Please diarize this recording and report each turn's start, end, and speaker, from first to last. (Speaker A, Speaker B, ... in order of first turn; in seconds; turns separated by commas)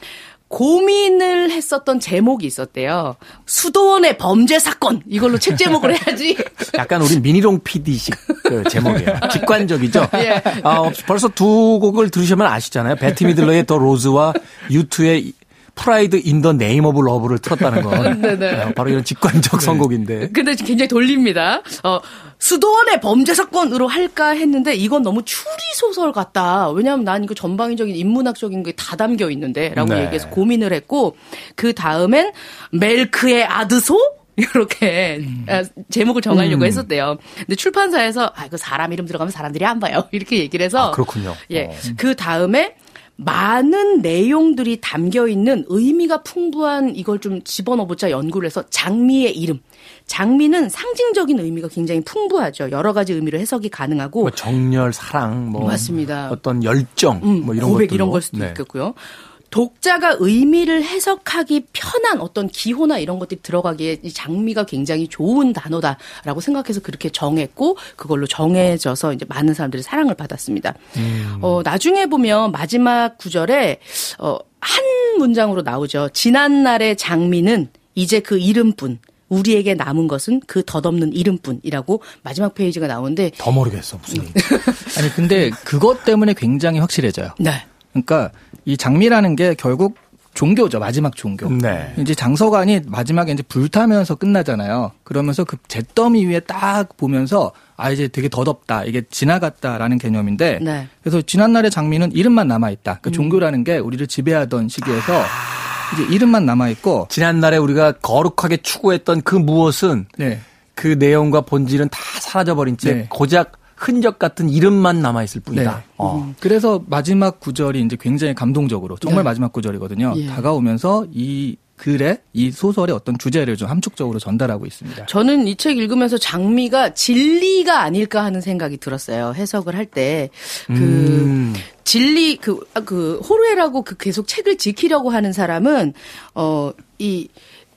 Speaker A: 0.5-6.8, Speaker B: 6.7-20.3, Speaker A: 8.3-10.9, Speaker A: 17.9-18.9, Speaker A: 20.2-54.4, Speaker B: 29.7-30.4, Speaker B: 36.3-36.9, Speaker B: 40.8-41.8, Speaker B: 54.2-58.6, Speaker C: 55.6-55.9, Speaker A: 55.6-56.4, Speaker A: 57.2-83.5, Speaker B: 71.0-71.6, Speaker B: 83.4-84.4, Speaker A: 84.1-85.3, Speaker C: 84.9-87.4, Speaker A: 87.4-87.6, Speaker C: 87.9-107.1, Speaker B: 91.4-92.0, Speaker A: 91.6-92.0, Speaker A: 100.6-100.9, Speaker A: 103.1-103.4, Speaker B: 107.1-110.1, Speaker C: 110.2-110.4, Speaker B: 110.8-116.3, Speaker C: 112.8-113.1, Speaker C: 115.5-125.1, Speaker A: 119.0-119.3, Speaker A: 120.1-120.5, Speaker A: 125.1-137.3, Speaker B: 130.7-131.6